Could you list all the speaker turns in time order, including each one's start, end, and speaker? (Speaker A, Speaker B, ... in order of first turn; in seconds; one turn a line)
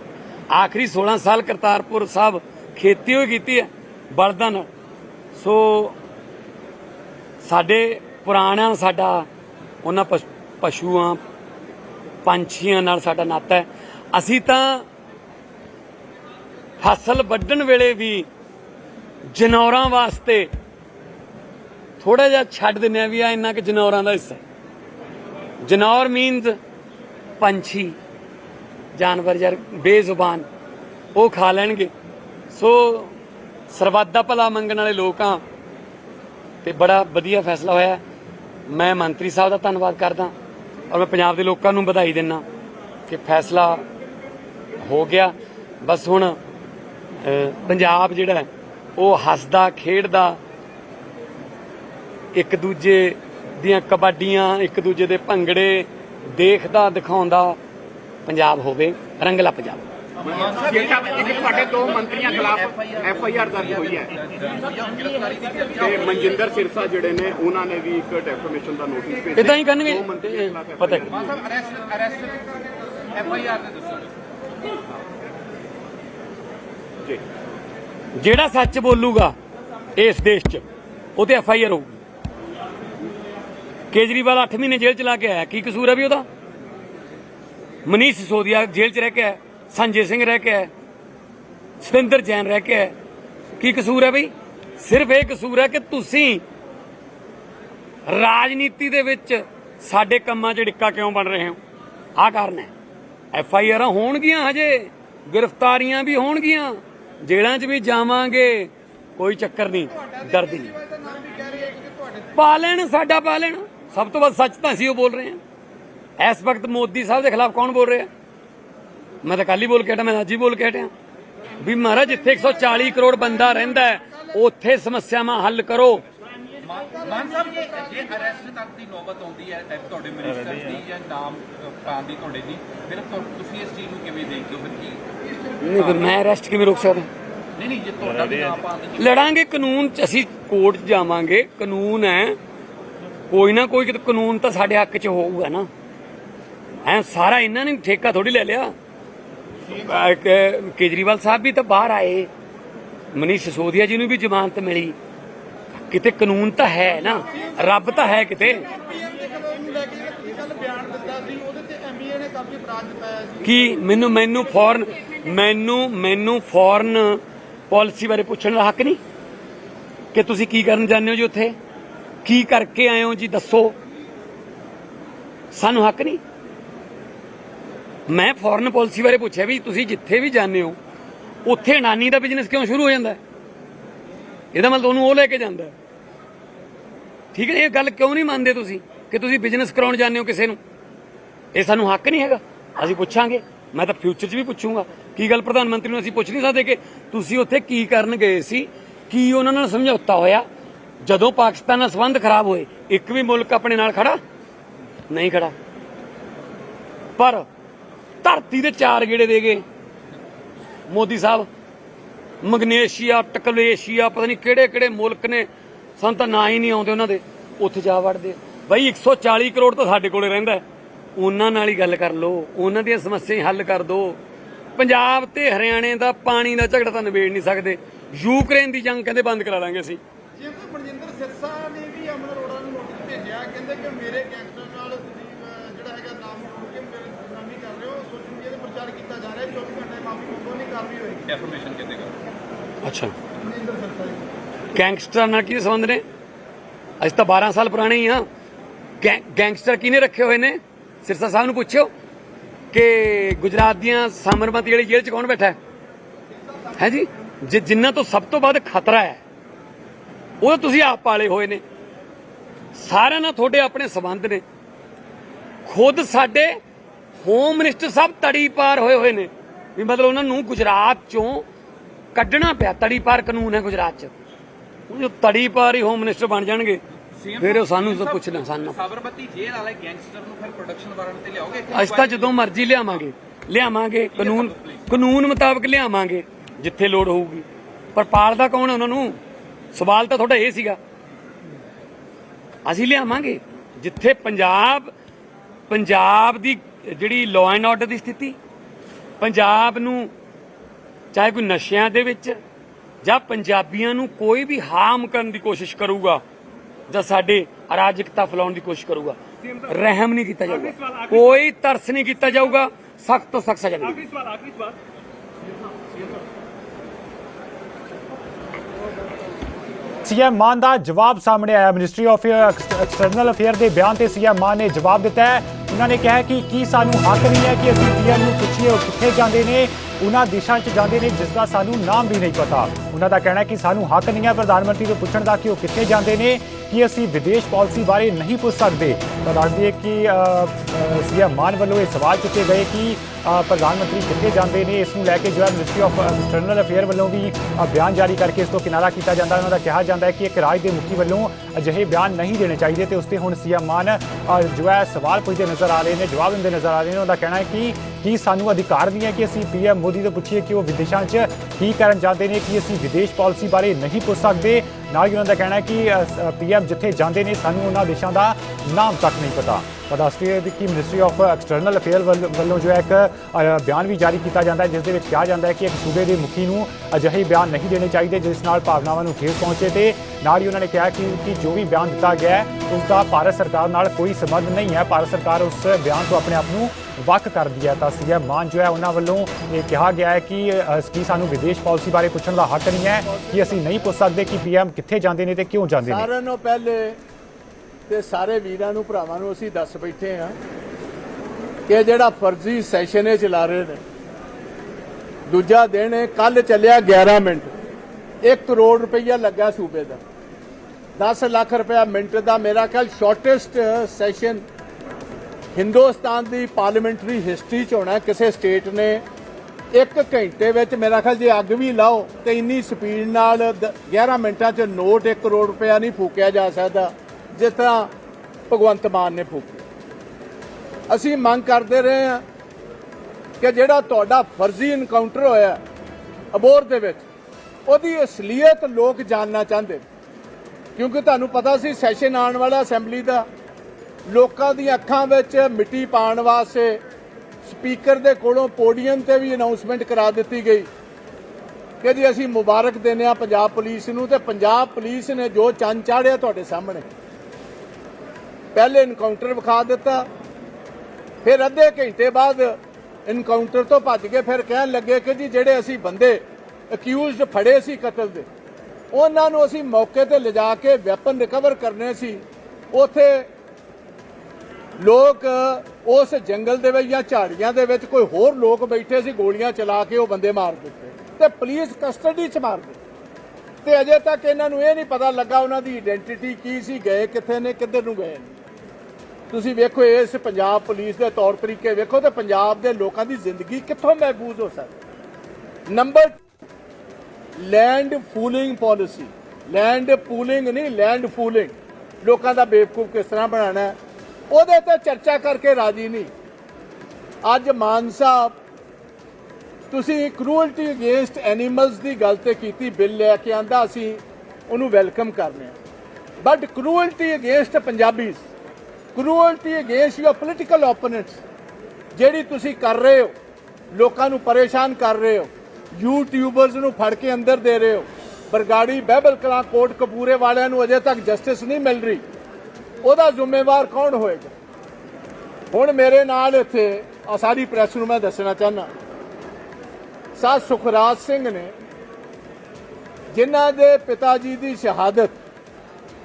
Speaker A: 0.5-4.7
Speaker A: 5.3-6.0
Speaker A: 7.4-9.3
Speaker A: 9.8-11.2
Speaker A: 12.2-14.8
Speaker A: 16.8-18.3
Speaker A: 19.3-20.5
Speaker A: 22.0-24.4
Speaker A: 25.6-26.6
Speaker A: 27.4-28.0
Speaker A: 28.9-30.4
Speaker A: 31.1-31.9
Speaker A: 32.5-33.1
Speaker A: 33.7-35.4
Speaker A: 36.6-38.0
Speaker A: 38.7-40.3
Speaker A: 40.9-42.4
Speaker A: 43.1-43.8
Speaker A: 44.8-46.4
Speaker A: 47.2-50.4
Speaker A: 52.3-57.6
Speaker A: 58.2-59.9
Speaker B: 60.2-64.1
Speaker C: 60.2-66.5
Speaker B: 65.8-71.4
Speaker A: 69.3-71.1
Speaker C: 71.0-74.1
Speaker A: 78.1-79.3
Speaker A: 80.0-80.6
Speaker A: 81.2-82.0
Speaker A: 83.9-86.3
Speaker A: 87.8-90.7
Speaker A: 91.8-92.9
Speaker A: 93.6-96.4
Speaker A: 98.1-101.6
Speaker A: 102.2-102.7
Speaker A: 103.3-110.7
Speaker D: 109.9-112.3
Speaker A: 112.3-115.4
Speaker A: 116.2-118.1
Speaker A: 119.2-120.9
Speaker A: 121.6-126.0
Speaker C: 126.6-136.1
Speaker A: 135.6-137.1
Speaker C: 137.6-139.3
Speaker A: 139.0-142.4
Speaker A: 143.3-145.7
Speaker A: 146.8-148.7
Speaker A: 149.8-152.3
Speaker A: 153.1-154.9
Speaker A: 155.9-158.7
Speaker D: 157.3-163.4
Speaker A: 163.4-169.0
Speaker A: 170.1-171.5
Speaker A: 172.2-173.8
Speaker A: 175.5-176.2
Speaker A: 178.1-180.8
Speaker A: 181.4-183.2
Speaker A: 184.5-185.7
Speaker A: 187.3-190.6
Speaker A: 191.5-200.4
Speaker A: 201.0-204.2
Speaker A: 205.1-205.5
Speaker A: 207.2-207.4
Speaker A: 208.2-209.6
Speaker A: 210.9-211.5
Speaker A: 212.4-215.5
Speaker A: 216.0-220.6
Speaker A: 221.2-224.2
Speaker A: 224.8-230.0
Speaker D: 230.4-241.2
Speaker C: 241.3-242.2
Speaker A: 242.8-243.1
Speaker D: 243.4-244.2
Speaker A: 244.7-246.0
Speaker A: 247.0-248.2
Speaker A: 249.0-251.9
Speaker A: 252.7-255.6
Speaker A: 256.8-259.2
Speaker A: 260.4-261.6
Speaker A: 262.7-264.4
Speaker A: 265.6-266.6
Speaker A: 267.2-271.4
Speaker A: 272.1-274.1
Speaker A: 274.9-276.8
Speaker C: 277.1-283.0
Speaker A: 277.4-278.8
Speaker A: 281.7-289.2
Speaker C: 284.1-284.9
Speaker A: 289.7-290.8
Speaker A: 292.6-294.9
Speaker A: 295.7-298.4
Speaker A: 299.2-300.1
Speaker A: 301.1-302.4
Speaker A: 303.0-306.2
Speaker A: 306.9-314.0
Speaker E: 320.0-396.1
Speaker F: 393.0-393.9
Speaker F: 395.8-397.0
Speaker F: 397.9-400.4
Speaker F: 401.7-403.8
Speaker F: 405.3-407.5
Speaker F: 408.2-410.0
Speaker F: 411.0-414.4
Speaker F: 415.5-419.0
Speaker F: 419.7-427.9
Speaker F: 428.5-429.6
Speaker F: 430.9-432.2
Speaker F: 433.4-435.6
Speaker F: 436.3-437.0
Speaker F: 437.6-439.8
Speaker F: 440.8-443.2
Speaker F: 444.1-446.8
Speaker F: 447.4-450.7
Speaker F: 451.8-456.8
Speaker F: 458.5-460.1
Speaker F: 461.2-468.3
Speaker F: 468.9-473.3
Speaker F: 474.8-482.8
Speaker F: 483.6-488.3
Speaker F: 489.3-494.7
Speaker F: 495.7-496.1
Speaker F: 497.4-503.8
Speaker F: 504.3-506.1
Speaker F: 507.2-508.4
Speaker F: 509.7-515.5
Speaker F: 516.2-518.2
Speaker F: 518.9-521.2
Speaker F: 521.9-523.1
Speaker F: 523.7-532.0
Speaker F: 532.8-534.3
Speaker F: 535.5-538.7
Speaker F: 540.1-541.5
Speaker F: 543.1-545.1